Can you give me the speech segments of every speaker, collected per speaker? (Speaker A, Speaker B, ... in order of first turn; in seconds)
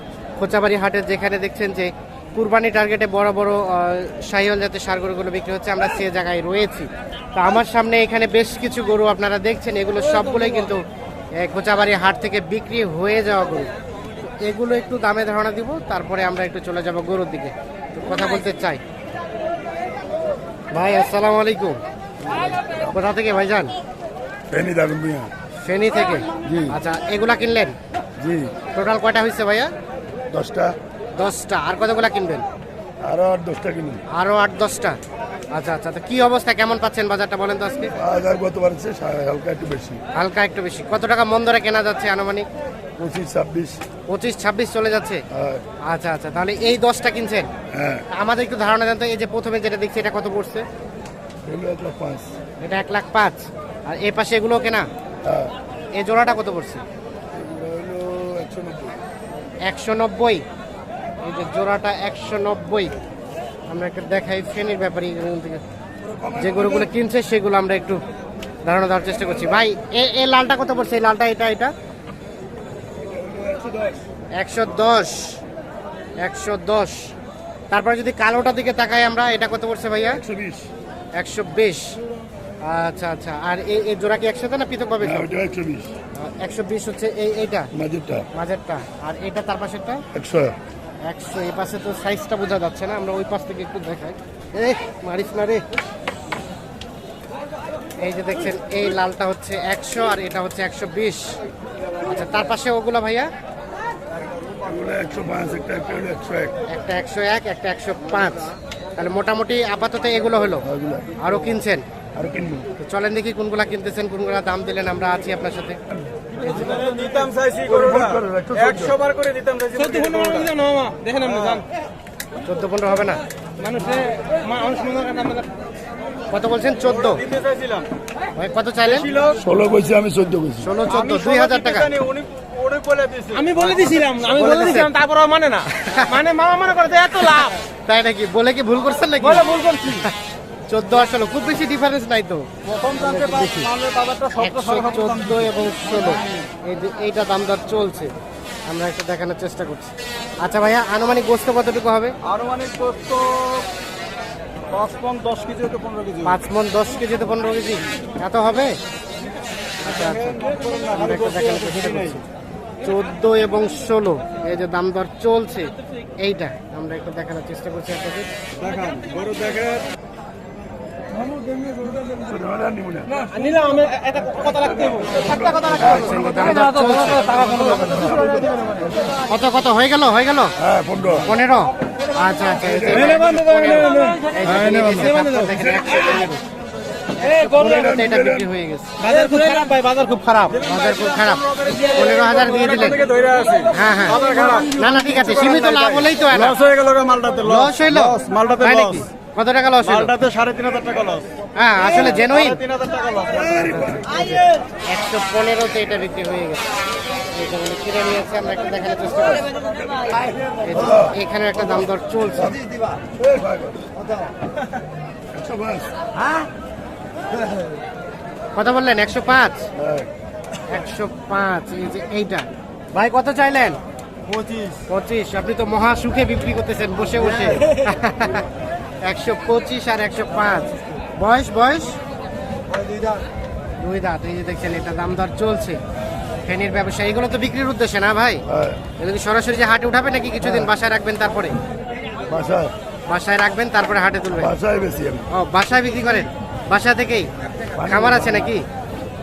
Speaker A: 0.4-10.8, 11.4-13.7, 14.4-18.8, 20.7-23.7, 25.6-27.8, 28.7-29.7, 31.1-32.5, 34.1-35.0, 35.5-37.9, 40.1-42.5, 44.1-45.2, 45.9-47.5, 48.1-50.7, 52.6-54.9, 55.9-56.8, 59.6-60.4, 61.2-62.9, 63.7-65.6, 66.3-68.0, 68.7-71.7, 74.3-75.4, 76.2-77.1, 77.7-80.2, 81.1-82.0, 82.6-85.3, 86.2-87.7, 88.3-90.0, 91.0-95.6, 98.0-101.3, 102.0-103.3, 106.7-110.6, 111.2-111.8, 112.8-115.8, 122.4-123.2, 126.3-127.2, 128.3-129.1, 130.6-131.9, 134.5-134.9, 135.7-136.2, 137.2-140.1, 140.7-143.7, 144.3-148.1, 148.7-152.2, 156.2-158.8, 159.8-162.2, 162.8-168.3, 175.6-177.7, 179.3-180.5, 181.2-186.4, 187.2-188.9, 190.6-193.0, 193.7-196.6, 197.4-200.2, 201.6-202.6, 203.6-206.7, 207.3-209.4, 210.6-212.6, 218.5-219.7, 220.7-223.8, 224.9-228.5, 229.0-232.0, 233.8-235.8, 236.4-238.4, 239.0-241.6, 243.1-244.5, 245.3-248.6
Speaker B: 24.5-25.3, 26.4-26.7, 28.2-28.5, 30.3-30.8, 33.0-34.0, 38.0-40.0, 43.0-43.8, 45.3-45.6, 47.7-48.0, 51.4-52.3, 55.2-55.5, 57.3-59.0, 66.1-66.9, 73.0-74.0, 80.2-80.7, 85.0-85.9, 87.7-88.3, 90.1-90.5, 104.6-106.5, 110.7-111.2, 112.1-112.7, 117.6-119.0, 129.4-130.7, 172.0-173.2, 174.5-176.6, 177.3-178.8, 180.6-181.3, 182.6-183.2, 187.5-188.5, 203.5-204.0, 209.9-211.1, 213.0-213.9, 215.3-215.9, 219.8-220.1, 238.5-238.8, 242.3-242.7, 244.4-245.2, 247.8-248.3
Speaker C: 116.5-120.5, 121.2-121.6, 127.0-127.9, 128.9-129.4, 130.9-134.7, 139.2-140.1, 142.7-145.4, 152.2-153.7, 154.7-156.3, 160.1-162.2, 168.6-169.8, 173.9-174.2, 183.4-184.0, 189.0-199.0, 199.8-201.3, 202.2-203.6, 224.3-224.7
Speaker D: 119.8-121.6, 123.6-125.5, 133.4-137.6, 173.3-175.0, 189.5-190.4